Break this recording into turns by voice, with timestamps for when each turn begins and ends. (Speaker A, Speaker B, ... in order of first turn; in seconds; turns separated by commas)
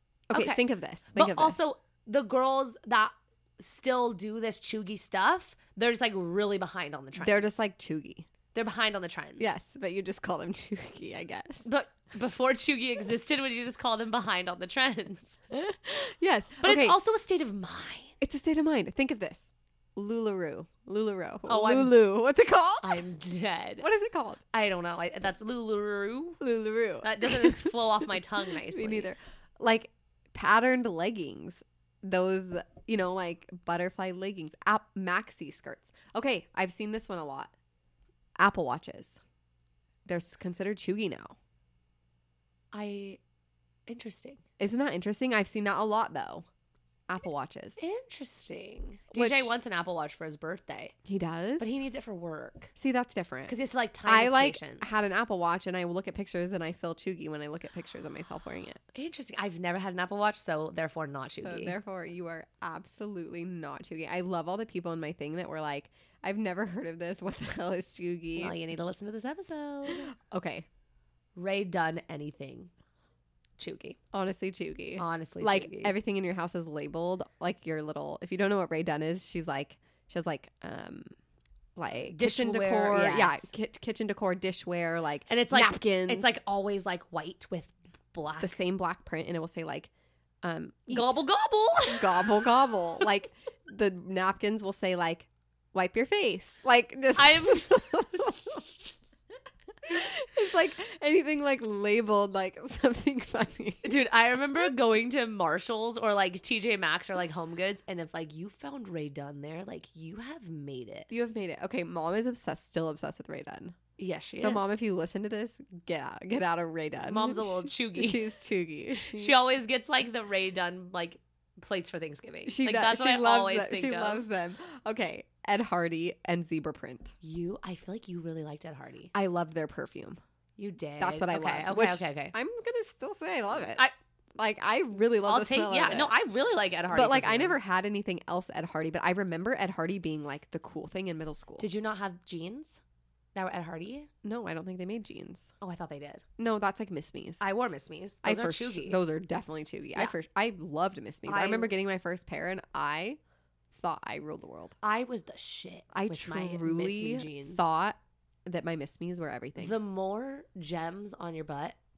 Speaker A: 0.3-1.6, Speaker B: 0.3-7.6, Speaker A: 7.2-8.3, Speaker B: 8.5-9.6, Speaker A: 9.4-11.7, Speaker B: 11.6-15.4, Speaker A: 15.5-17.0, Speaker B: 16.6-18.1, Speaker A: 18.2-23.0, Speaker B: 21.5-21.9, Speaker B: 22.8-23.9, Speaker A: 23.8-24.4, Speaker B: 24.5-26.4, Speaker A: 26.4-37.5, Speaker B: 27.0-29.1, Speaker A: 38.4-39.2, Speaker A: 40.0-41.4, Speaker B: 42.7-43.2, Speaker B: 43.9-44.4, Speaker A: 44.6-46.5, Speaker A: 47.1-47.8, Speaker B: 47.8-50.9, Speaker A: 49.1-49.5, Speaker A: 51.0-51.7, Speaker B: 51.6-52.7, Speaker A: 52.8-53.5, Speaker B: 53.5-55.0, Speaker A: 54.0-58.8, Speaker B: 58.9-61.8, Speaker A: 61.4-68.5, Speaker B: 68.4-70.1, Speaker A: 69.9-70.7, Speaker B: 71.4-72.7, Speaker B: 73.6-74.0, Speaker A: 74.1-81.1, Speaker B: 75.0-76.0, Speaker A: 81.8-86.4, Speaker B: 82.1-83.5, Speaker B: 85.3-88.6, Speaker A: 88.4-89.9, Speaker A: 90.4-91.2, Speaker B: 90.9-92.4, Speaker A: 91.9-98.7, Speaker B: 97.2-97.8, Speaker A: 99.9-104.0, Speaker B: 103.8-111.1, Speaker A: 111.1-113.8, Speaker B: 114.0-114.7, Speaker A: 114.4-119.4, Speaker B: 117.1-118.2, Speaker B: 119.0-124.2, Speaker A: 122.5-127.1, Speaker B: 127.2-129.1, Speaker A: 129.1-130.2, Speaker B: 130.6-132.3, Speaker A: 131.0-133.8, Speaker A: 134.4-136.1, Speaker B: 135.2-137.6, Speaker A: 136.9-141.7, Speaker B: 141.6-142.8, Speaker B: 143.3-144.1, Speaker A: 144.2-145.5, Speaker B: 145.6-146.2, Speaker A: 146.4-147.4, Speaker B: 147.4-149.0, Speaker A: 148.2-153.2, Speaker B: 151.2-151.7, Speaker A: 153.7-154.7, Speaker B: 154.8-157.7, Speaker A: 155.9-159.8, Speaker B: 159.6-161.8